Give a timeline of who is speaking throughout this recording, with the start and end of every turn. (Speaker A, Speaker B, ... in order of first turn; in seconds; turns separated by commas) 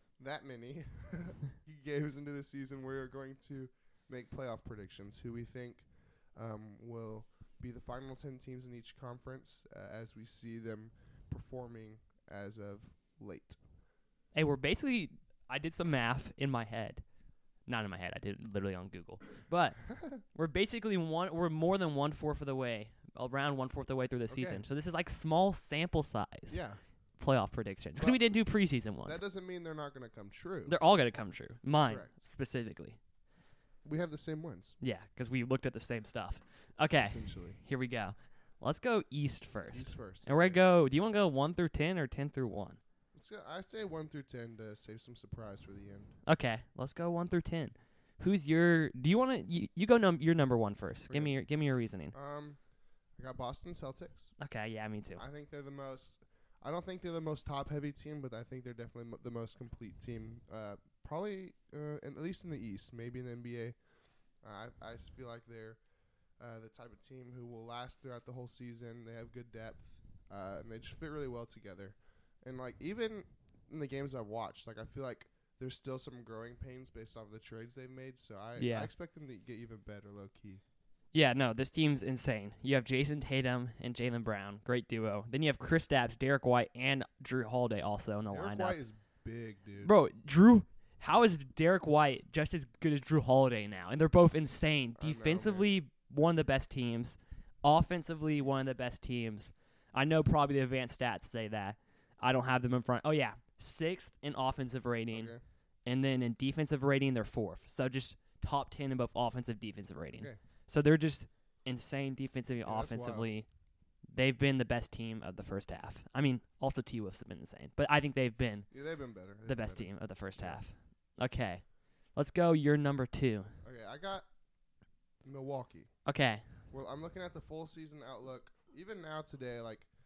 Speaker A: 0.2-13.6, Speaker B: 14.3-17.0, Speaker B: 17.7-26.6, Speaker A: 24.3-24.6, Speaker A: 26.5-26.8, Speaker B: 27.2-29.2, Speaker A: 29.1-30.7, Speaker B: 30.7-33.0, Speaker A: 33.8-34.8, Speaker B: 34.8-42.8, Speaker A: 37.1-37.6, Speaker A: 39.7-40.6, Speaker A: 43.1-46.1, Speaker B: 46.2-52.1, Speaker A: 51.1-51.4, Speaker A: 52.1-52.6, Speaker A: 53.2-54.3, Speaker B: 54.4-55.2, Speaker A: 55.2-63.8, Speaker A: 64.4-65.8, Speaker A: 66.4-80.6, Speaker B: 78.6-78.9, Speaker B: 81.1-88.8, Speaker A: 88.3-89.9, Speaker B: 89.8-105.3, Speaker A: 95.0-95.7, Speaker A: 105.1-105.4, Speaker B: 105.8-113.5, Speaker A: 112.7-113.3, Speaker B: 114.1-118.7, Speaker A: 118.7-120.6, Speaker B: 119.4-123.5, Speaker A: 123.6-124.2, Speaker A: 125.2-125.9, Speaker B: 126.0-126.4, Speaker A: 126.7-129.9